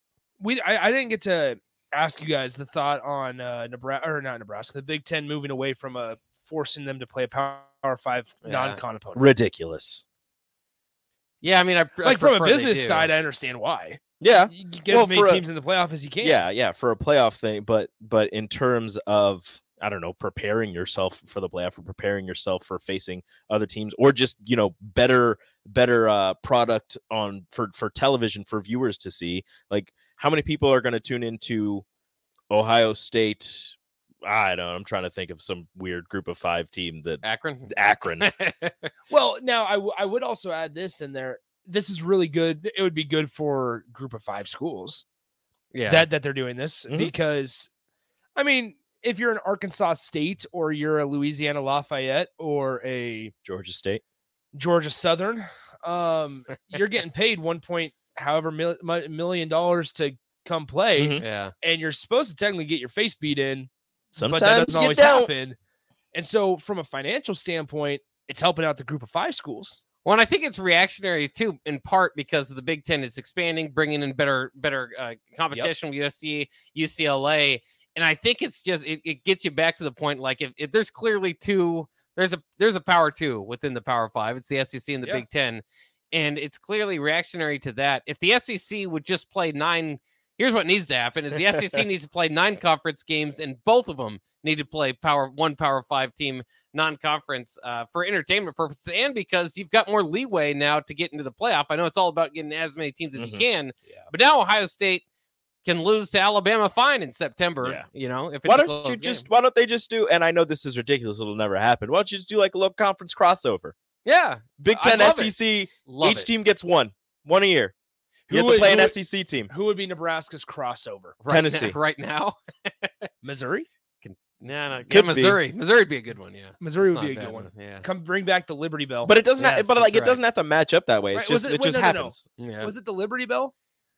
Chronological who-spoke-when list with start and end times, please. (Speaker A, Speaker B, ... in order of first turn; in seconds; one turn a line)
Speaker A: 0.4-9.3
Speaker B: 8.4-8.8
Speaker C: 9.2-10.0
Speaker B: 11.4-13.1
Speaker A: 12.0-16.4
Speaker C: 14.2-15.4
Speaker C: 16.2-31.8
Speaker C: 32.5-38.3
Speaker B: 37.2-38.9
Speaker A: 39.1-45.0
Speaker B: 45.7-46.1
Speaker A: 45.9-47.7
Speaker A: 48.4-53.3
Speaker C: 53.5-54.0
Speaker A: 54.5-63.7
Speaker C: 61.0-61.2
Speaker B: 61.2-61.5
Speaker C: 64.1-65.3
Speaker A: 64.2-65.6
Speaker A: 66.1-69.8
Speaker B: 70.0-105.0
Speaker C: 103.2-103.5
Speaker B: 105.7-109.2
Speaker C: 108.5-113.7
Speaker B: 114.1-116.3
Speaker C: 114.6-117.7
Speaker A: 118.3-121.2
Speaker C: 118.3-119.5
Speaker B: 121.2-123.1
Speaker C: 121.3-121.8
Speaker A: 123.2-123.7
Speaker B: 124.0-127.9
Speaker C: 124.9-125.4
Speaker A: 126.6-129.6
Speaker C: 129.0-132.2
Speaker B: 129.4-130.2
Speaker A: 131.1-133.5
Speaker B: 132.4-132.7